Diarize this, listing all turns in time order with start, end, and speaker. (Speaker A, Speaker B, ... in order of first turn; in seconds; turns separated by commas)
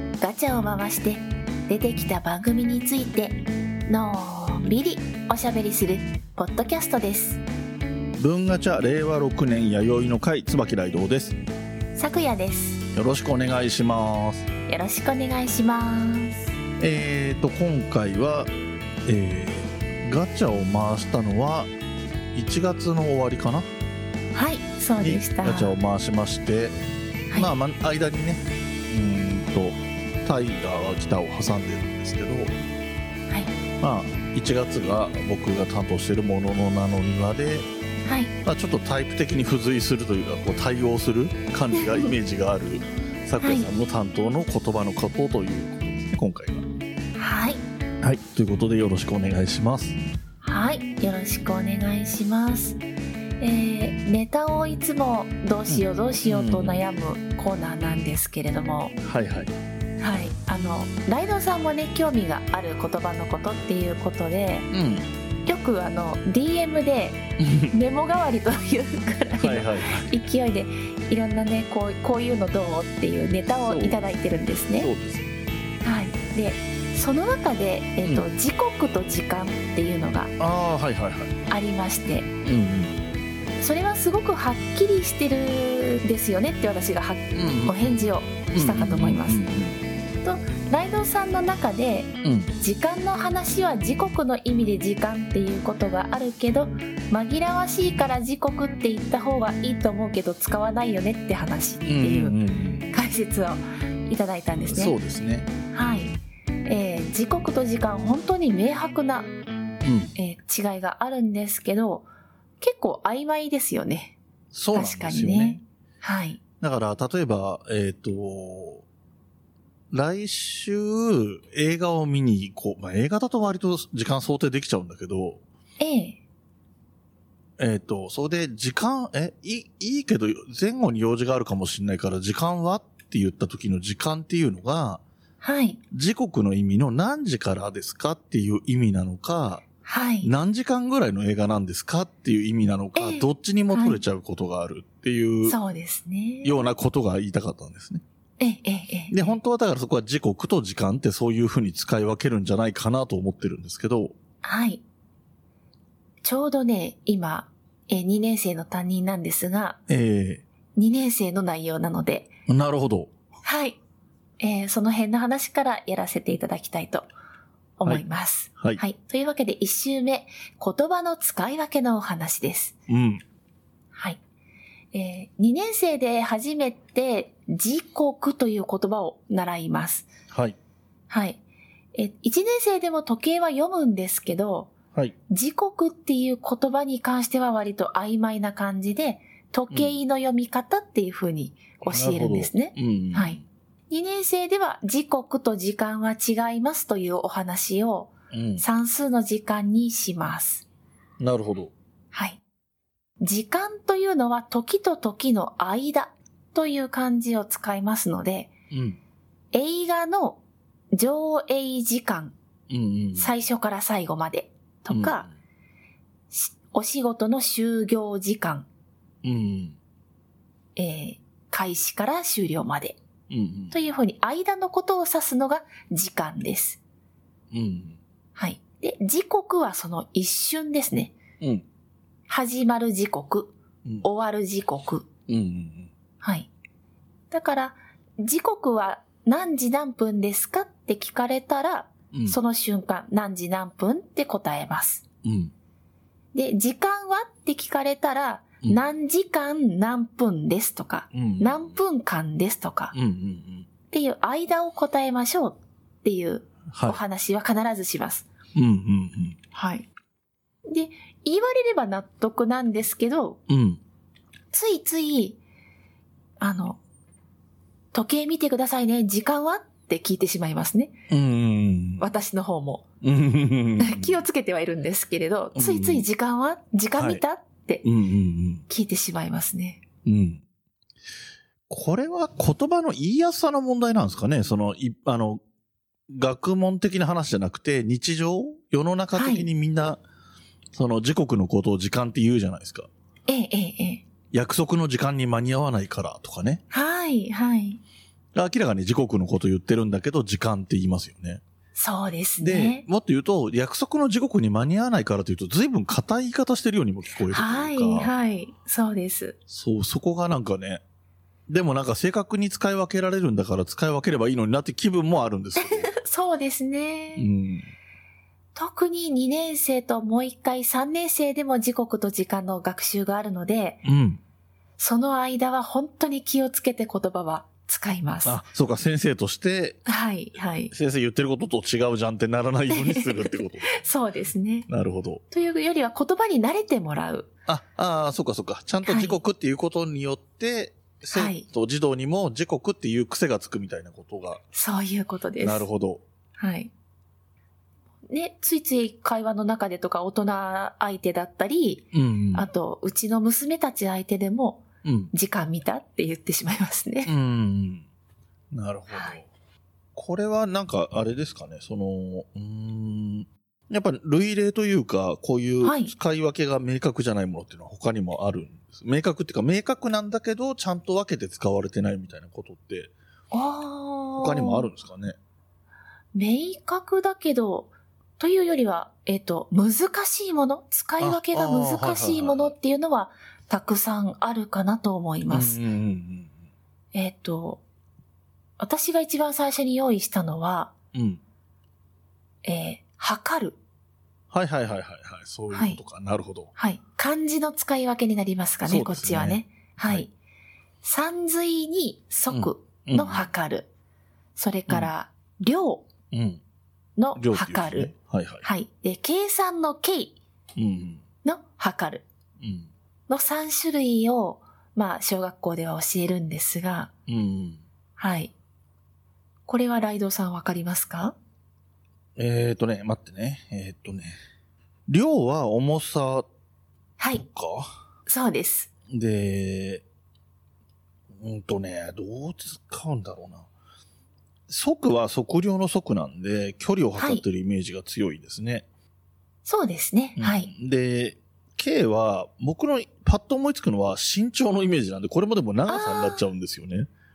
Speaker A: 0.2-7.4, Speaker B: 8.2-11.4, Speaker A: 11.9-12.9, Speaker B: 12.9-14.5, Speaker A: 14.7-16.5, Speaker B: 16.8-18.5, Speaker B: 19.1-21.7, Speaker B: 22.3-23.7, Speaker A: 24.3-25.8, Speaker B: 25.0-26.8, Speaker B: 27.3-32.5, Speaker B: 33.8-37.7, Speaker A: 38.1-38.3, Speaker B: 38.5-46.6, Speaker A: 43.4-43.7, Speaker A: 47.2-47.6, Speaker B: 48.0-50.0, Speaker A: 50.4-52.8, Speaker A: 53.4-59.0, Speaker B: 55.7-56.8, Speaker B: 59.0-59.5, Speaker A: 60.0-64.7, Speaker B: 64.7-65.1, Speaker A: 65.5-74.9, Speaker B: 67.4-67.7, Speaker B: 69.4-70.1, Speaker B: 73.5-74.0, Speaker B: 74.8-75.3, Speaker A: 75.8-80.3, Speaker B: 80.4-81.4, Speaker A: 81.5-82.3, Speaker B: 82.4-83.0, Speaker A: 83.6-89.5, Speaker B: 87.3-89.8, Speaker A: 90.2-105.0, Speaker B: 92.2-92.5, Speaker B: 101.8-102.9, Speaker B: 104.7-105.5, Speaker A: 105.7-109.3, Speaker B: 109.8-110.1, Speaker A: 110.2-112.1, Speaker A: 112.6-114.2, Speaker B: 114.5-115.6, Speaker A: 114.7-116.4, Speaker B: 116.6-118.8, Speaker B: 119.9-125.4, Speaker A: 125.8-126.2, Speaker B: 127.6-135.0, Speaker A: 135.4-135.8, Speaker B: 135.9-139.7, Speaker A: 139.8-140.3, Speaker B: 140.2-145.6, Speaker A: 143.0-144.0, Speaker A: 145.4-146.7, Speaker B: 146.4-148.0, Speaker A: 148.4-149.4, Speaker B: 149.1-154.2, Speaker A: 154.4-154.8, Speaker A: 156.2-159.8, Speaker B: 159.9-160.4, Speaker A: 160.8-162.3, Speaker B: 162.5-163.1, Speaker A: 163.4-163.8, Speaker A: 164.4-167.1, Speaker A: 167.8-172.8, Speaker B: 172.9-173.2, Speaker A: 173.9-174.2, Speaker A: 174.9-180.1, Speaker B: 180.3-180.6, Speaker A: 181.1-181.4, Speaker A: 181.9-184.8, Speaker A: 185.3-193.4, Speaker B: 191.8-193.4, Speaker A: 193.9-200.7, Speaker B: 198.3-198.7, Speaker B: 201.2-201.7, Speaker A: 202.1-202.4, Speaker A: 203.2-208.5, Speaker B: 208.7-209.0, Speaker A: 209.5-210.4, Speaker A: 210.9-212.3, Speaker B: 212.7-213.3, Speaker A: 213.2-215.3, Speaker B: 214.9-215.3, Speaker A: 216.3-218.7, Speaker B: 219.2-219.8, Speaker A: 220.8-223.0, Speaker B: 223.3-223.8, Speaker A: 223.7-226.8, Speaker B: 227.5-228.0, Speaker A: 228.4-231.2, Speaker B: 231.4-231.7, Speaker A: 232.3-235.1, Speaker B: 235.3-235.9, Speaker A: 236.2-236.5, Speaker A: 237.3-245.0, Speaker B: 242.1-242.4, Speaker B: 245.2-245.5, Speaker A: 246.3-252.9, Speaker B: 251.1-251.8, Speaker B: 252.9-253.7, Speaker A: 253.9-258.3, Speaker B: 256.7-257.0, Speaker B: 258.6-259.4, Speaker A: 259.5-259.9, Speaker A: 260.7-263.4, Speaker B: 263.5-263.8, Speaker A: 264.5-265.4, Speaker A: 266.4-266.8, Speaker A: 267.9-271.0, Speaker B: 271.1-272.1, Speaker A: 272.0-272.9, Speaker B: 273.0-274.2, Speaker A: 273.8-277.9, Speaker B: 275.6-276.1, Speaker B: 277.0-277.2, Speaker B: 277.8-278.6, Speaker A: 278.7-279.8, Speaker B: 280.1-280.4, Speaker B: 281.7-285.4, Speaker B: 286.1-290.0, Speaker A: 289.1-289.5, Speaker B: 290.7-292.9, Speaker A: 293.3-294.0, Speaker B: 294.3-296.6, Speaker A: 296.7-297.8, Speaker B: 298.3-301.4, Speaker A: 301.8-302.9, Speaker B: 302.4-308.1, Speaker A: 307.3-309.4, Speaker B: 309.5-310.8, Speaker B: 311.5-315.9, Speaker A: 315.6-317.3, Speaker B: 317.2-317.7, Speaker A: 318.6-323.8, Speaker B: 323.8-324.2, Speaker A: 324.8-328.4, Speaker B: 328.2-329.8, Speaker A: 329.9-330.7, Speaker B: 330.7-333.8, Speaker A: 332.7-334.7, Speaker B: 334.7-335.2, Speaker A: 335.3-337.3, Speaker B: 337.5-344.4, Speaker A: 338.9-339.2, Speaker A: 341.1-341.5, Speaker A: 344.5-345.7, Speaker B: 345.4-346.0, Speaker A: 346.4-346.7, Speaker A: 348.1-357.1, Speaker B: 351.9-352.5, Speaker B: 354.8-355.1, Speaker B: 357.1-357.9, Speaker B: 358.5-359.3, Speaker A: 358.9-359.2, Speaker B: 359.9-372.9, Speaker A: 365.6-365.9, Speaker A: 373.3-374.7, Speaker B: 374.2-375.2, Speaker A: 376.1-385.6, Speaker B: 381.0-382.5, Speaker B: 385.3-386.3, Speaker A: 386.9-387.6, Speaker A: 388.6-390.7, Speaker B: 390.9-391.2, Speaker A: 392.4-393.6, Speaker B: 394.3-396.5, Speaker A: 395.5-395.8, Speaker A: 396.6-400.1, Speaker B: 398.6-400.1, Speaker A: 400.8-403.7, Speaker B: 402.3-403.3, Speaker A: 404.4-405.9, Speaker B: 406.1-406.4, Speaker A: 407.0-407.9, Speaker B: 407.2-408.5, Speaker A: 408.4-410.2, Speaker B: 410.6-411.0, Speaker A: 411.2-412.1, Speaker B: 412.4-412.7, Speaker A: 413.1-416.9, Speaker B: 417.1-417.6, Speaker A: 418.0-418.3, Speaker A: 419.5-421.2, Speaker B: 422.2-424.2, Speaker B: 424.9-426.3, Speaker A: 427.0-427.2, Speaker B: 427.1-427.7, Speaker A: 428.1-428.7, Speaker B: 428.9-429.8, Speaker B: 431.2-433.5, Speaker B: 434.5-438.6, Speaker A: 437.0-437.2, Speaker A: 439.4-440.5, Speaker B: 440.2-446.9, Speaker A: 445.7-446.2